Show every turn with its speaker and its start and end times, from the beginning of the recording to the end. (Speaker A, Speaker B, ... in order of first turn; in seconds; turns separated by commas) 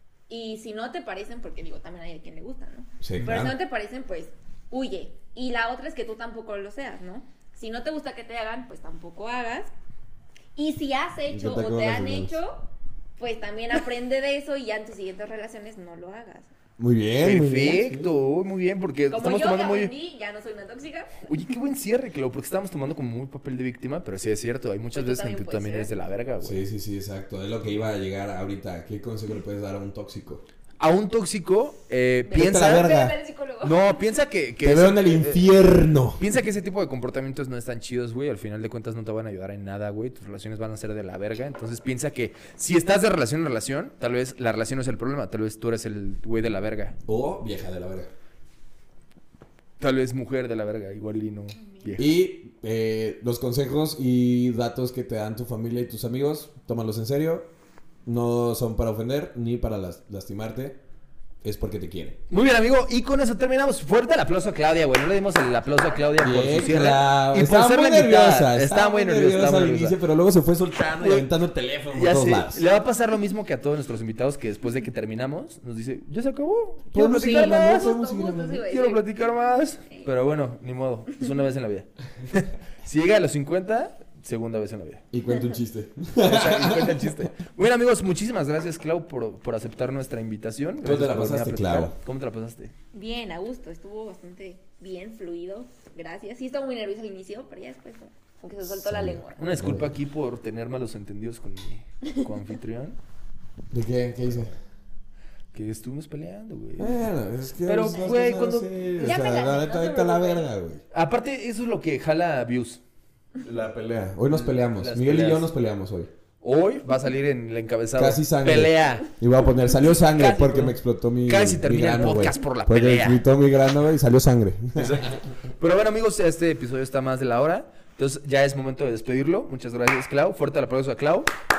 Speaker A: 0.3-9.7, Speaker B: 3.0-3.6, Speaker A: 10.6-16.5, Speaker B: 11.3-12.4, Speaker B: 16.8-18.1, Speaker C: 17.2-19.9, Speaker A: 19.1-21.3, Speaker C: 21.3-26.6, Speaker A: 24.9-25.9, Speaker B: 26.4-30.4, Speaker C: 30.8-32.9, Speaker A: 32.3-33.8, Speaker B: 32.3-33.1, Speaker C: 33.6-35.5, Speaker B: 34.6-36.2, Speaker C: 36.2-47.0, Speaker B: 47.1-48.1, Speaker C: 49.8-52.1, Speaker A: 51.6-52.0, Speaker B: 52.0-57.5, Speaker B: 58.0-60.8, Speaker B: 61.4-62.2, Speaker C: 62.3-70.0, Speaker B: 66.2-72.6, Speaker C: 71.0-71.3, Speaker C: 71.9-78.0, Speaker B: 76.9-78.7, Speaker A: 77.1-79.1, Speaker C: 78.6-85.0, Speaker B: 85.1-87.3, Speaker C: 86.2-92.7, Speaker B: 90.8-92.0, Speaker A: 92.9-99.6, Speaker B: 98.7-99.9, Speaker C: 99.4-103.0, Speaker B: 103.7-104.5, Speaker C: 105.5-107.0, Speaker B: 106.8-110.8, Speaker C: 107.6-108.7, Speaker A: 109.0-110.5, Speaker C: 110.9-112.8, Speaker B: 113.4-116.1, Speaker C: 114.3-115.5, Speaker C: 116.4-119.1, Speaker B: 118.0-125.2, Speaker C: 120.0-123.2, Speaker C: 124.8-131.3